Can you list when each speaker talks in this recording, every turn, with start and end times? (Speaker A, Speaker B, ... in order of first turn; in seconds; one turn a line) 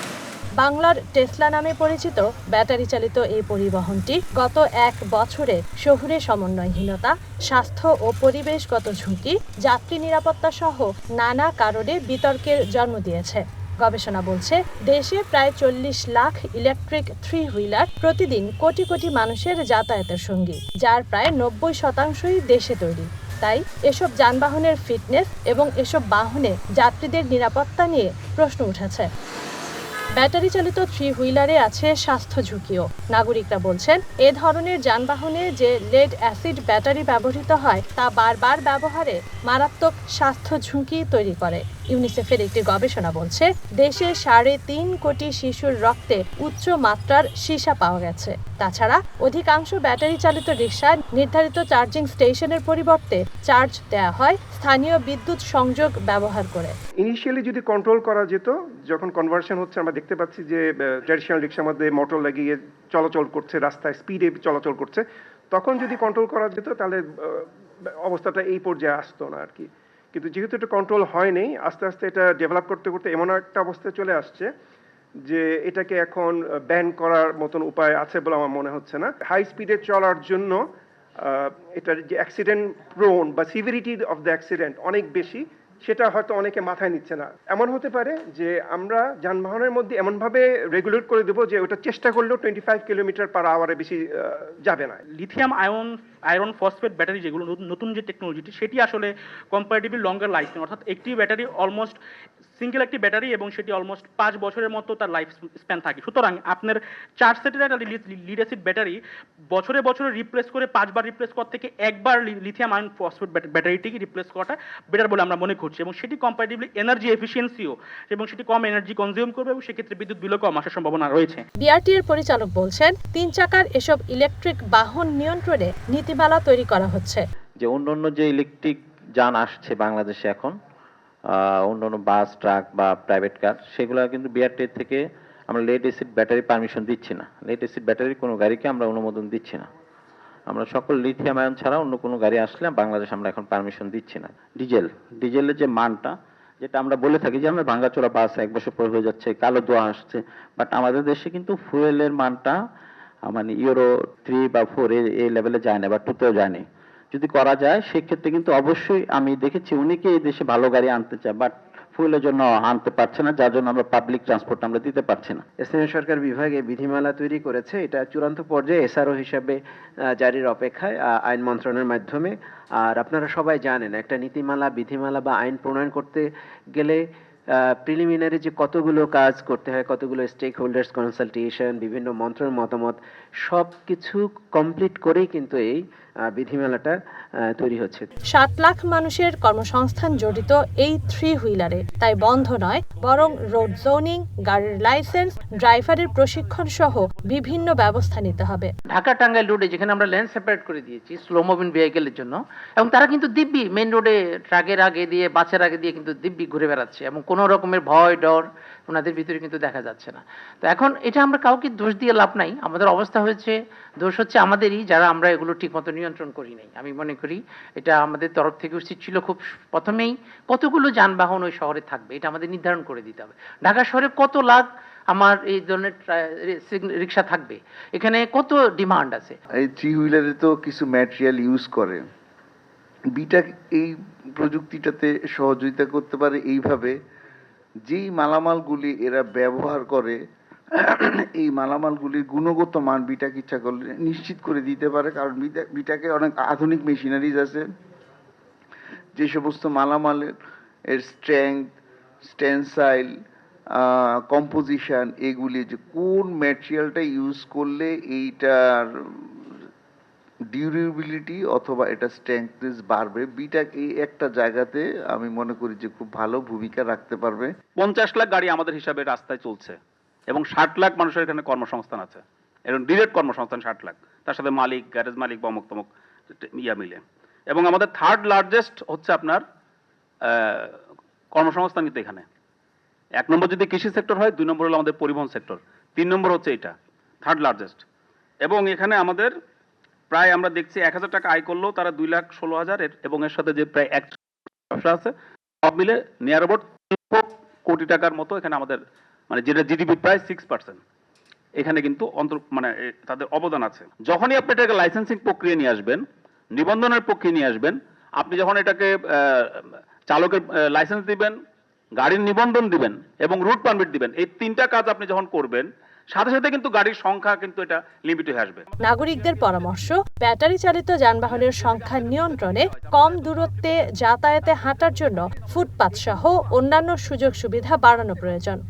Speaker A: 0.6-29.1
Speaker A: 30.2-56.7
Speaker B: 57.1-58.3
Speaker C: 57.3-58.4
Speaker C: 59.0-60.6
Speaker C: 61.1-62.3
Speaker B: 61.2-62.4
Speaker C: 63.0-65.0
Speaker B: 63.1-64.8
Speaker B: 65.6-66.9
Speaker C: 66.2-66.7
Speaker B: 68.1-69.6
Speaker C: 68.9-69.3
Speaker C: 70.2-70.8
Speaker B: 70.3-74.3
Speaker C: 71.4-71.7
Speaker C: 72.7-73.0
Speaker C: 74.1-74.4
Speaker B: 75.8-76.2
Speaker C: 75.8-76.2
Speaker B: 76.8-80.4
Speaker B: 81.8-82.4
Speaker B: 83.0-85.4
Speaker C: 83.0-83.6
Speaker C: 84.5-85.2
Speaker B: 85.9-93.9
Speaker C: 86.0-87.2
Speaker B: 94.7-95.0
Speaker D: 95.2-102.0
Speaker D: 102.6-109.0
Speaker D: 109.5-121.5
Speaker A: 121.6-127.2
Speaker E: 127.6-130.5
Speaker E: 131.4-139.7
Speaker E: 140.5-152.6
Speaker E: 153.3-165.4
Speaker F: 165.6-169.6
Speaker F: 170.2-177.0
Speaker F: 177.8-187.0
Speaker F: 187.5-188.1
Speaker A: 188.3-198.7
Speaker G: 198.9-229.3
Speaker C: 229.6-232.0
Speaker C: 233.2-237.0
Speaker C: 237.9-240.2
Speaker C: 240.7-247.7
Speaker C: 249.2-250.3
Speaker C: 250.9-253.1
Speaker C: 253.7-259.6
Speaker C: 260.5-267.5
Speaker H: 267.8-275.9
Speaker H: 276.4-279.4
Speaker H: 280.3-280.8
Speaker H: 281.3-282.2
Speaker H: 283.2-287.8
Speaker H: 288.4-289.3
Speaker H: 290.1-294.2
Speaker H: 294.7-295.1
Speaker H: 295.6-300.8
Speaker H: 301.6-306.0
Speaker H: 306.5-311.3
Speaker H: 312.0-318.6
Speaker A: 318.8-328.6